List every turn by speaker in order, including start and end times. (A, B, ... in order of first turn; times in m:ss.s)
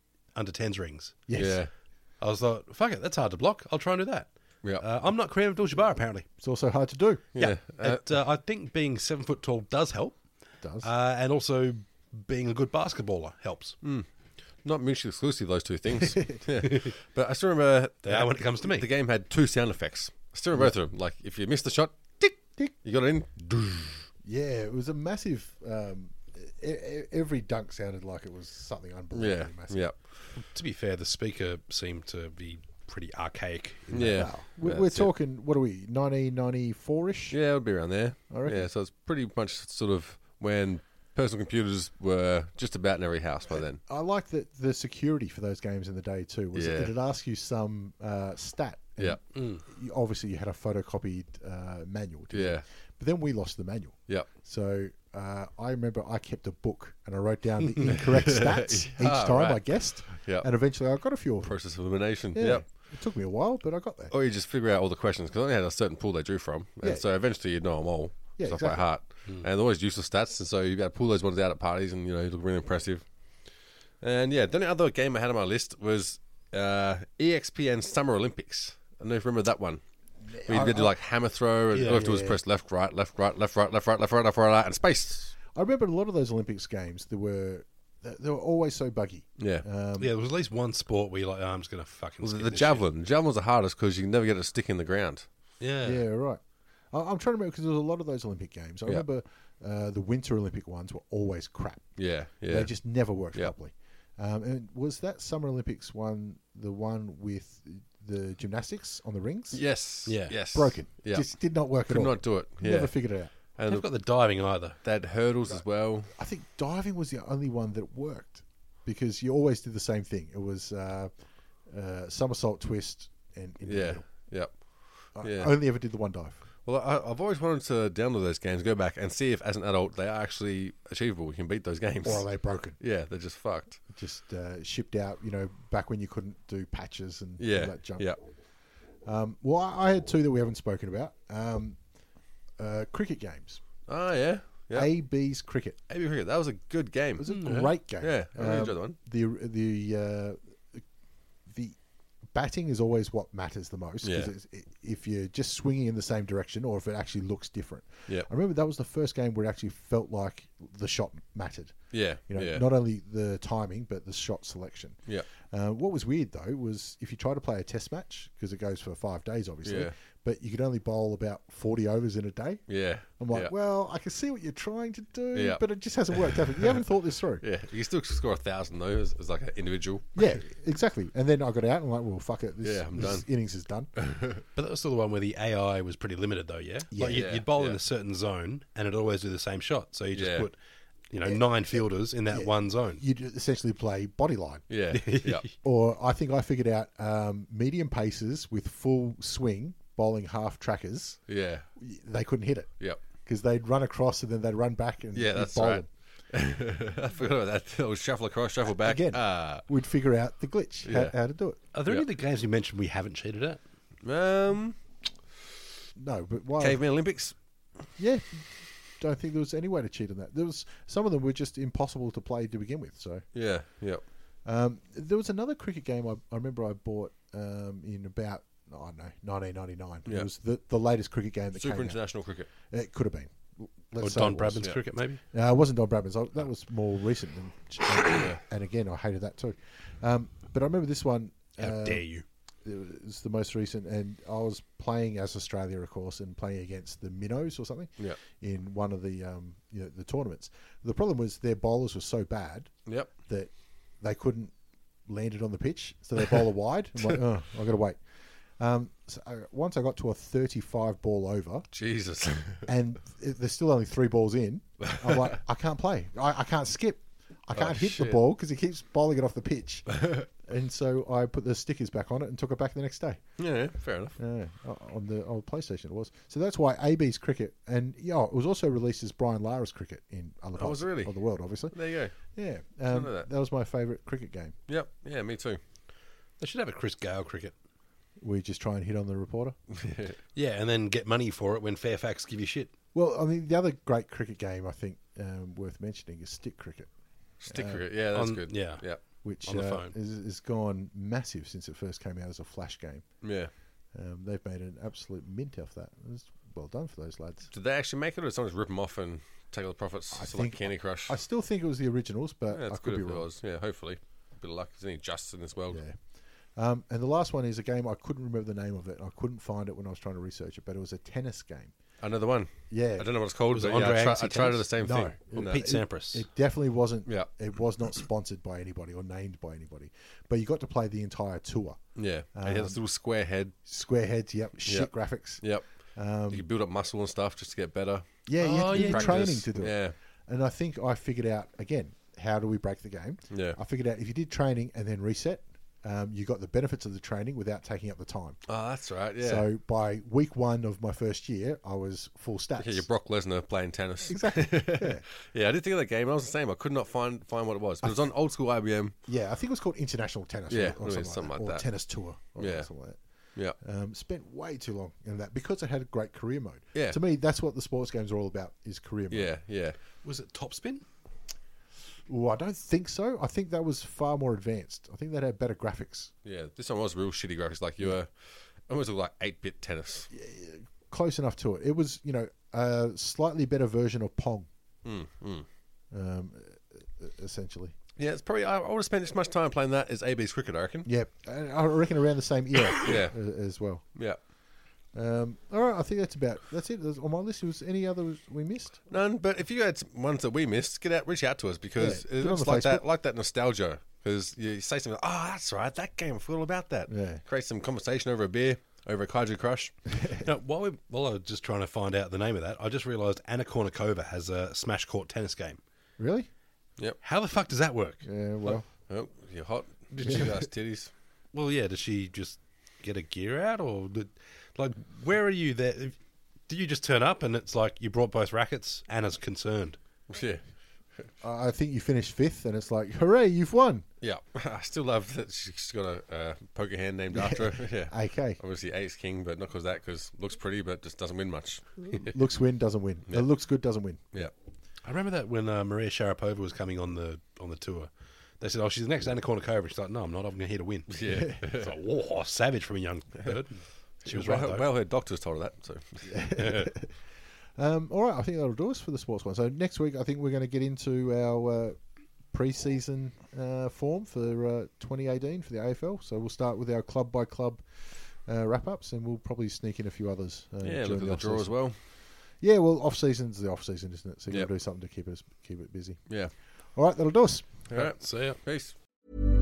0:00.3-0:01.3 A
0:01.3-0:01.6 B
0:01.3-0:01.7 C
0:02.2-0:06.3 A
0:06.4-0:07.2 B
0:07.3-0:08.0 C
0:07.4-0:10.2 A
0:10.6-0:10.9 B
0:10.8-0:13.8 A
0:13.8-0:14.1 C
0:14.6-0:24.0 C
0:18.0-0:18.9 A
0:24.2-0:29.9 B
0:29.1-0:30.0 C
0:30.4-0:34.3 A
0:33.9-0:35.1 C
0:33.9-0:37.4 B
0:37.3-0:43.8 C
0:38.3-0:38.7 B
0:43.5-1:04.1 B
0:46.5-0:46.9 C
0:49.3-0:49.6 A
0:52.3-0:52.6 C
0:57.9-1:00.5 C
1:01.4-1:02.7 C
1:04.1-1:13.0 C
1:08.4-1:08.9 B
1:14.0-1:19.8 C
1:20.3-1:20.9 B
1:20.4-1:25.3 C
1:21.7-1:22.1 A
1:21.8-1:22.4 B
1:25.5-1:30.1 B
1:29.4-1:29.6 C
1:30.0-1:32.8 A
1:32.2-1:35.3 C
1:35.6-1:36.0 A
1:35.8-1:49.6 B
1:42.0-1:42.7 C
1:49.5-1:51.3 C
1:50.0-1:50.4 A
1:50.3-1:53.3 B
1:51.8-1:52.9 C
1:53.6-1:53.9 C
1:53.6-1:54.8 A
1:54.8-1:56.1 C
1:55.5-2:01.1 B
2:01.7-2:04.3 B
2:03.6-2:05.5 C
2:05.1-2:06.4 B
2:06.6-2:12.3 C
2:12.0-2:12.8 B
2:12.8-2:13.8 C
2:13.9-2:18.2 B
2:17.4-2:18.2 C
2:19.0-2:21.8 B
2:22.6-2:23.6 B
2:23.9-2:24.9 C
2:24.7-2:25.8 B
2:25.9-2:27.3 C
2:27.2-2:30.8 B
2:27.3-2:27.7 A
2:28.0-2:29.0 C
2:31.4-2:31.8 B
2:32.3-2:57.4 B
2:34.0-2:34.3 C
2:41.9-2:42.6 C
2:49.6-2:49.9 C
2:52.7-2:53.5 C
2:55.3-2:55.6 C
2:56.2-2:56.8 C
2:57.4-3:00.2 C
3:00.1-3:03.9 B
3:02.6-3:03.3 C
3:04.0-3:04.4 C
3:04.6-3:10.6 A
3:06.9-3:07.4 B
3:07.1-3:07.8 C
3:10.1-3:10.5 C
3:11.1-3:13.0 A
3:11.2-3:14.6 B
3:14.7-3:15.5 C
3:14.9-3:15.5 A
3:15.5-3:21.2 B
3:21.3-3:21.7 C
3:21.8-3:25.9 B
3:25.1-3:29.6 C
3:28.6-3:31.6 B
3:30.8-3:31.1 C
3:31.7-3:33.6 A
3:34.0-3:34.8 C
3:36.0-3:36.8 B
3:36.6-3:37.4 C
3:38.0-3:43.2 B
3:43.3-3:44.0 C
3:44.4-4:02.0 B
3:51.5-3:52.5 C
3:54.0-3:55.2 A
3:58.1-3:58.4 C
4:01.6-4:02.2 A
4:02.6-4:14.5 B
4:15.1-4:18.0 B
4:18.6-4:21.7 B
4:21.7-4:22.6 C
4:22.6-4:33.3 B
4:27.5-4:28.2 C
4:33.4-4:34.2 C
4:34.2-4:44.6 B
4:40.6-4:41.1 C
4:41.7-4:42.1 C
4:42.9-4:43.3 C
4:44.7-4:45.6 C
4:46.4-4:47.5 A
4:48.2-4:49.6 B
4:49.8-4:50.2 C
4:50.3-4:52.7 A
4:52.9-4:56.9 B
4:57.4-4:59.0 C
4:57.4-4:57.8 B
4:58.1-4:59.9 A
4:59.2-5:03.2 B
5:03.2-5:03.5 C
5:03.9-5:07.5 B
5:07.5-5:11.2 C
5:10.1-5:13.2 B
5:12.5-5:15.8 C
5:15.7-5:16.0 B
5:16.5-5:21.7 B
5:22.0-5:25.6 C
5:22.7-5:23.1 B
5:23.5-5:24.7 A
5:24.8-5:31.8 B
5:25.3-5:26.3 A
5:32.0-5:33.6 C
5:32.3-5:32.8 B
5:33.6-5:36.4 B
5:34.6-5:39.9 C
5:38.2-5:48.4 B
5:38.6-5:39.3 A
5:43.3-5:43.6 C
5:48.5-5:49.4 C
5:49.2-5:52.8 B
5:52.6-5:58.9 C
5:54.0-5:55.0 B
5:57.8-5:58.1 B
5:59.0-6:09.3 B
6:00.5-6:01.6 C
6:02.4-6:02.7 C
6:09.1-6:09.8 C
6:10.0-6:10.8 A
6:12.1-6:16.1 B
6:16.2-6:20.1 C
6:20.1-6:24.5 B
6:24.8-6:25.4 C
6:25.9-6:27.7 B
6:28.0-6:30.9 C
6:30.8-6:33.8 B
6:32.7-6:33.1 C
6:34.9-6:38.8 B
6:38.9-6:49.9 C
6:41.8-6:42.8 B
6:46.9-6:47.2 B
6:49.9-6:50.2 B
6:50.2-6:55.6 A
6:56.0-6:56.3 B
6:57.0-6:58.6 A
6:58.0-6:58.6 B
6:58.9-7:00.9 C
6:59.9-7:00.3 A
7:01.3-7:06.0 A
7:06.5-7:09.8 A
7:10.1-7:10.4 C
7:11.2-7:13.8 B
7:14.0-7:22.1 C
7:17.1-7:18.4 B
7:22.1-7:24.0 B
7:24.8-7:34.7 A
7:30.9-7:31.7 C
7:31.0-7:31.4 B
7:34.0-7:36.7 C
7:36.1-7:36.9 B
7:37.6-7:41.8 B
7:42.3-7:51.6 B
7:50.6-7:51.8 C
7:52.4-7:56.0 B
7:56.7-7:57.5 B
7:57.7-7:58.7 C
7:57.7-7:58.4 A